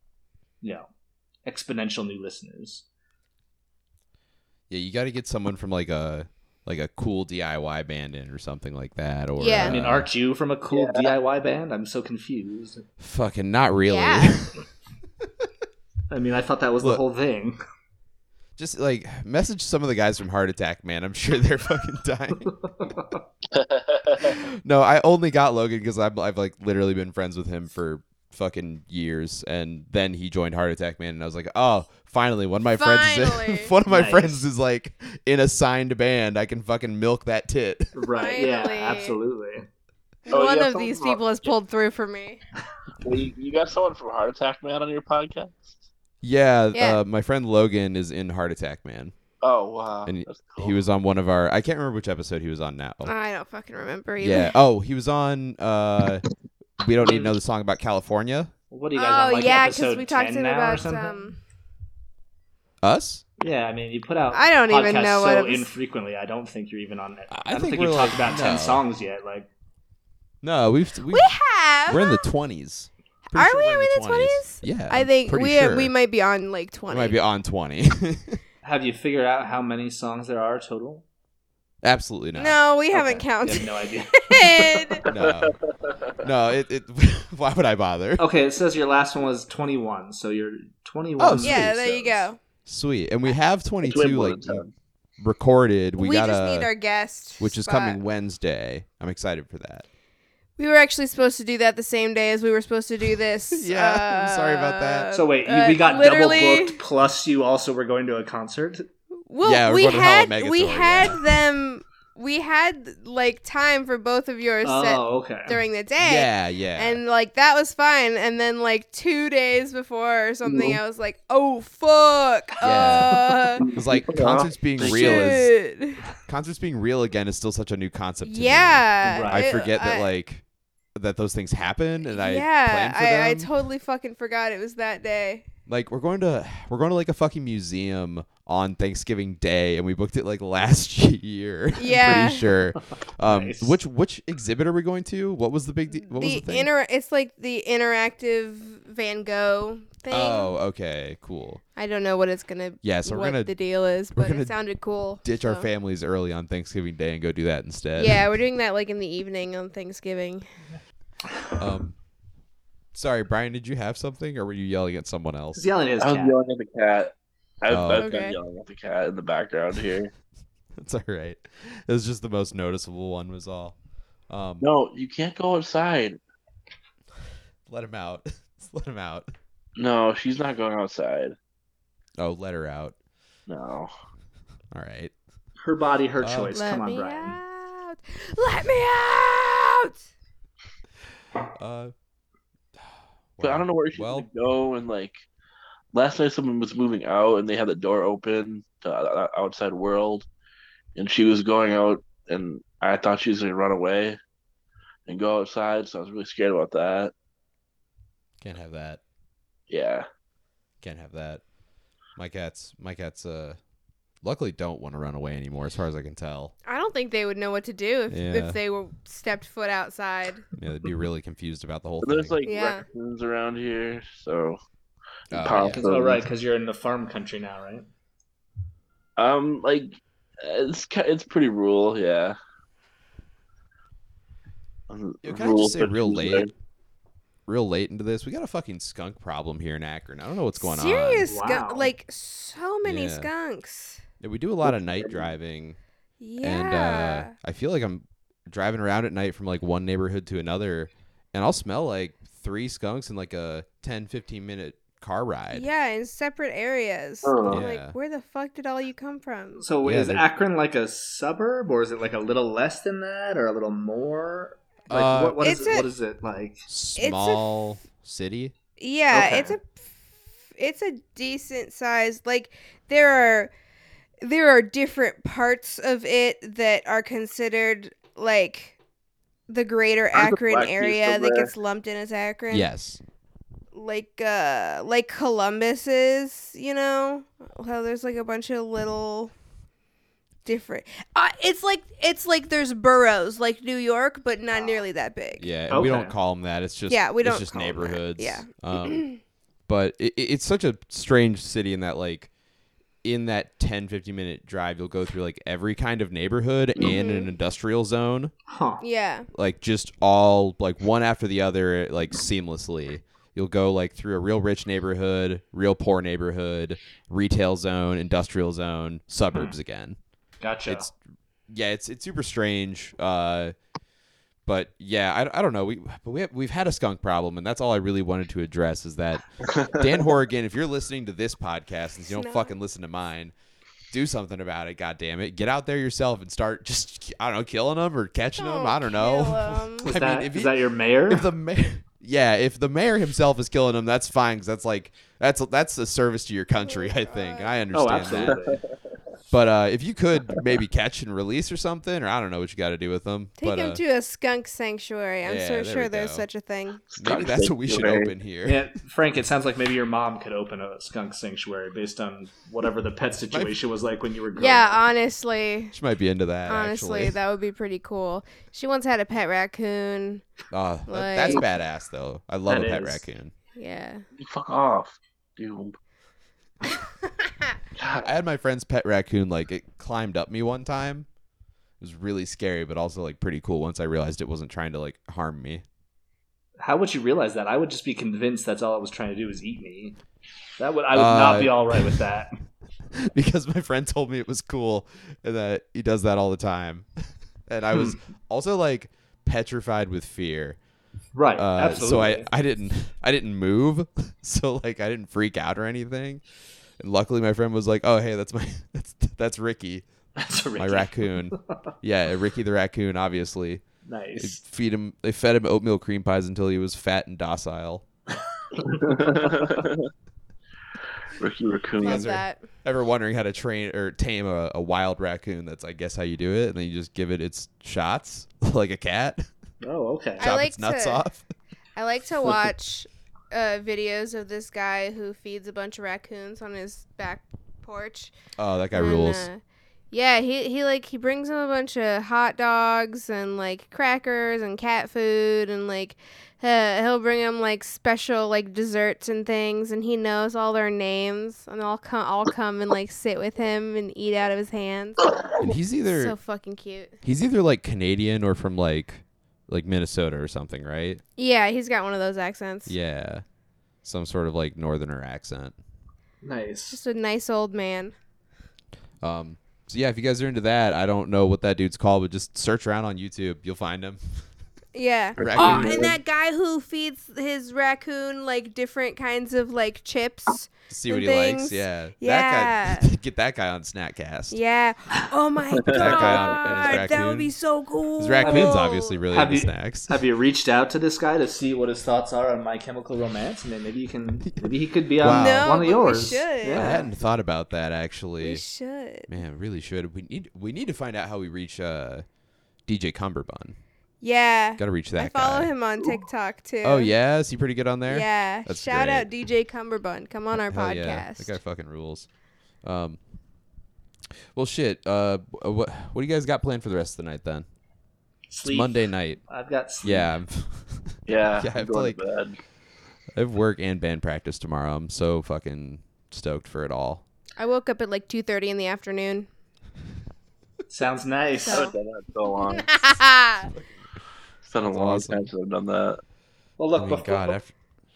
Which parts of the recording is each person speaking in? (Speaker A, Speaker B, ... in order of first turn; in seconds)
Speaker A: 1.4-2.8, 9.6-12.8, 16.1-17.6, 22.5-23.2, 33.9-34.5, 38.0-39.6, 57.0-57.3, 58.7-61.3, 63.4-69.5, 78.6-81.0, 82.9-85.1, 88.2-91.7, 105.1-108.9, 114.6-115.6, 129.0-129.6, 143.2-143.8, 165.6-166.3, 185.6-187.4, 225.5-227.9, 241.2-241.9, 259.6-266.6, 269.1-269.6, 295.7-296.1, 308.5-308.8, 320.4-320.9, 339.8-341.3, 347.7-348.6, 358.4-364.8, 372.5-373.0, 386.6-390.0, 390.6-392.4, 397.7-398.0, 401.1-402.3, 410.2-411.3, 413.9-414.4, 429.6-430.3, 466.2-466.8, 488.2-496.9, 518.3-520.1, 530.7-531.7, 536.6-537.3
Speaker B: 4.7-10.1, 13.0-14.6, 18.6-22.5, 24.2-38.1, 46.2-49.1, 50.0-53.1, 54.2-56.2, 56.8-58.5, 62.8-63.2, 67.3-68.8, 70.4-71.3, 71.9-75.9, 76.9-78.4, 81.8-82.6, 85.1-85.5, 86.2-88.2, 91.2-94.6, 95.2-96.7, 97.4-99.8, 103.5-105.1, 109.4-111.2, 116.0-117.0, 122.6-125.5, 126.3-130.4, 130.9-133.5, 135.7-146.7, 150.1-151.6, 152.8-153.5, 154.1-154.5, 155.2-158.2, 161.6-161.9, 162.9-165.7, 167.7-168.1, 170.8-173.8, 174.3-174.7, 177.7-179.3, 182.2-182.9, 184.7-185.1, 186.2-186.6, 191.6-191.9, 193.4-194.3, 208.4-209.0, 210.8-211.4, 212.2-213.6, 214.2-216.5, 218.1-218.6, 220.6-222.3, 225.3-225.9, 235.2-236.5, 237.5-241.3, 242.8-243.3, 244.2-245.8, 246.4-255.7, 257.5-257.9, 259.8-260.2, 264.9-265.5, 266.7-268.5, 282.5-283.0, 295.4-299.1, 299.7-302.3, 303.0-308.3, 309.3-320.0, 320.6-320.9, 321.5-323.5, 324.4-333.3, 333.9-348.4, 349.3-353.8, 355.2-356.2, 357.0-358.6, 363.3-363.6, 365.7-367.1, 370.5-373.3, 378.0-381.1, 381.8-385.6, 390.9-392.0, 393.0-396.9, 397.5-400.6, 401.4-406.2, 406.8-409.8, 410.6-413.6, 414.2-417.8, 421.8-429.2, 430.2-431.2, 438.4-439.3, 455.4-456.1, 457.0-461.0, 462.7-463.2, 463.8-465.5, 469.0-474.0, 475.2-475.8, 480.7-484.4, 485.7-487.3, 488.0-490.0, 494.2-495.6, 496.5-498.4, 499.1-502.0, 502.7-503.6, 504.6-505.5, 506.6-509.1, 510.4-512.1, 512.6-513.0, 514.3-517.4, 518.4-519.2, 519.8-522.0, 523.1-527.0, 534.6-535.2, 536.7-537.5
Speaker C: 9.4-9.8, 13.9-14.4, 32.7-33.7, 38.2-39.2, 40.3-42.4, 46.7-47.0, 53.0-54.5, 58.9-61.4, 64.3-65.7, 71.1-72.2, 73.3-77.2, 82.3-85.0, 91.4-92.4, 96.0-98.0, 100.6-106.8, 109.2-123.7, 124.8-126.0, 128.2-130.1, 132.1-135.4, 141.8-142.5, 145.9-150.5, 151.8-155.7, 157.9-160.5, 168.0-168.3, 186.5-190.1, 216.7-220.4, 222.4-222.8, 240.6-244.0, 246.2-247.3, 255.5-259.6, 265.4-265.9, 267.0-267.4, 268.8-269.7, 270.6-273.5, 274.2-278.8, 279.5-282.6, 283.7-289.3, 290.4-295.5, 296.9-299.2, 306.8-307.3, 308.8-309.3, 332.1-332.5, 338.4-339.9, 346.6-347.6, 353.4-356.8, 364.4-365.7, 366.5-370.2, 370.9-371.4, 373.5-374.0, 421.8-422.4, 430.2-431.0, 431.8-438.1, 438.7-455.3, 455.9-457.0, 461.2-462.7, 466.7-467.9, 474.7-482.9, 484.3-489.0, 495.0-496.9, 498.2-499.1, 504.0-506.9, 507.9-511.3, 527.4-529.3, 531.4-531.7, 532.3-533.5
Speaker D: 10.7-11.1, 23.5-24.4, 40.3-41.5, 43.0-45.8, 49.4-50.8, 85.1-86.2, 93.8-94.7, 120.5-120.8, 123.6-125.3, 166.0-170.1, 174.6-176.2, 179.8-181.3, 183.5-183.9, 193.4-195.2, 195.9-200.3, 200.9-204.2, 205.1-207.1, 209.7-210.1, 222.0-224.6, 225.3-226.2, 229.2-232.3, 234.9-236.5, 244.6-245.3, 257.2-257.6, 280.1-281.5, 329.5-329.8, 356.9-358.1, 374.2-375.8, 377.8-378.1, 418.6-419.9, 421.1-422.1, 475.2-476.0, 485.6-486.2, 521.1-522.4, 531.5-532.7, 534.4-536.0